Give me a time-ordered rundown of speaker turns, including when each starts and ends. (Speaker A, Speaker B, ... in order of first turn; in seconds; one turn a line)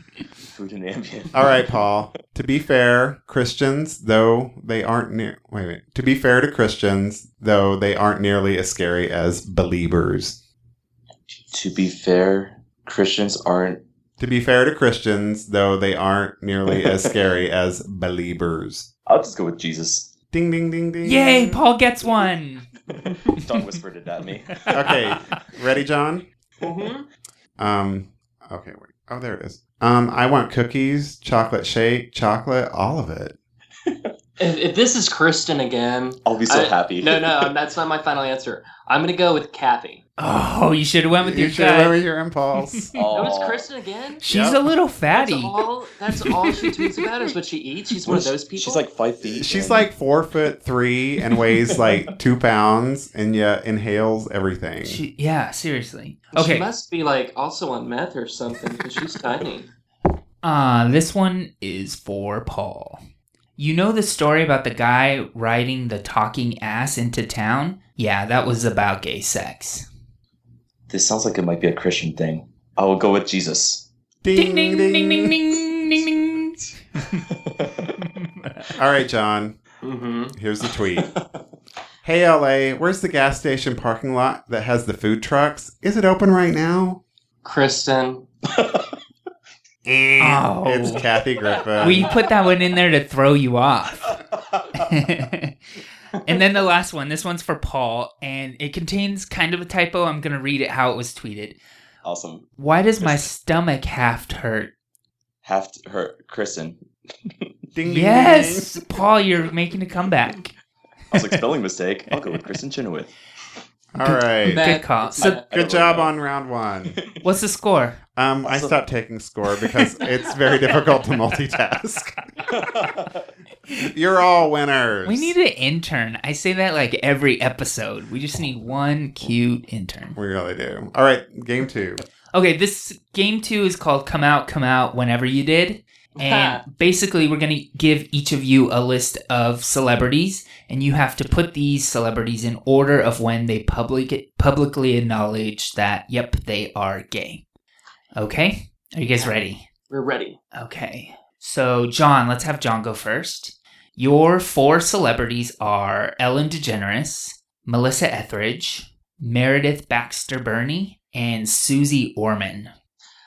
Speaker A: 0.5-1.9
Speaker B: 1.3-10.4
Speaker A: 11.5-13.8
Speaker B: 14.2-18.9
Speaker A: 19.1-20.1
Speaker B: 20.3-21.6
Speaker C: 21.0-22.7
Speaker A: 22.9-24.7
Speaker C: 24.6-25.1
Speaker B: 24.7-26.3
Speaker D: 26.6-27.1
Speaker B: 27.6-33.3
Speaker D: 34.4-40.0
Speaker A: 36.2-37.5
Speaker C: 40.2-42.0
Speaker B: 41.2-42.9
Speaker A: 42.9-43.7
Speaker D: 43.1-44.2
Speaker C: 44.2-45.6
Speaker B: 44.3-44.6
Speaker D: 45.1-48.8
Speaker C: 46.5-46.8
Speaker A: 48.0-49.9
Speaker B: 49.3-55.0
Speaker A: 51.7-52.0
Speaker C: 54.8-56.7
Speaker D: 56.3-59.7
Speaker C: 60.4-63.0
Speaker C: 63.6-69.8
Speaker A: 70.9-73.8
Speaker B: 74.2-75.6
Speaker C: 74.3-77.2
Speaker A: 77.3-77.9
Speaker C: 78.0-78.7
Speaker B: 78.7-79.6
Speaker D: 79.8-80.3
Speaker B: 80.3-81.1
Speaker B: 82.0-87.0
Speaker D: 87.4-88.2
Speaker B: 89.8-92.1
Speaker C: 90.2-91.0
Speaker C: 91.8-94.2
Speaker C: 94.7-95.6
Speaker C: 96.2-101.6
Speaker A: 102.0-102.5
Speaker C: 102.6-104.7
Speaker A: 103.0-103.3
Speaker A: 105.4-107.5
Speaker B: 107.7-108.8
Speaker C: 107.8-110.5
Speaker A: 111.1-113.1
Speaker B: 113.9-114.6
Speaker C: 114.0-115.4
Speaker D: 114.4-115.5
Speaker A: 115.2-116.1
Speaker B: 115.5-117.0
Speaker A: 116.9-117.2
Speaker C: 117.2-118.0
Speaker B: 118.2-122.2
Speaker A: 118.4-118.8
Speaker A: 122.5-123.2
Speaker B: 123.7-125.3
Speaker C: 125.0-130.2
Speaker B: 130.2-132.0
Speaker C: 132.3-147.4
Speaker D: 136.2-136.6
Speaker C: 148.2-149.6
Speaker D: 149.9-150.4
Speaker C: 150.5-162.7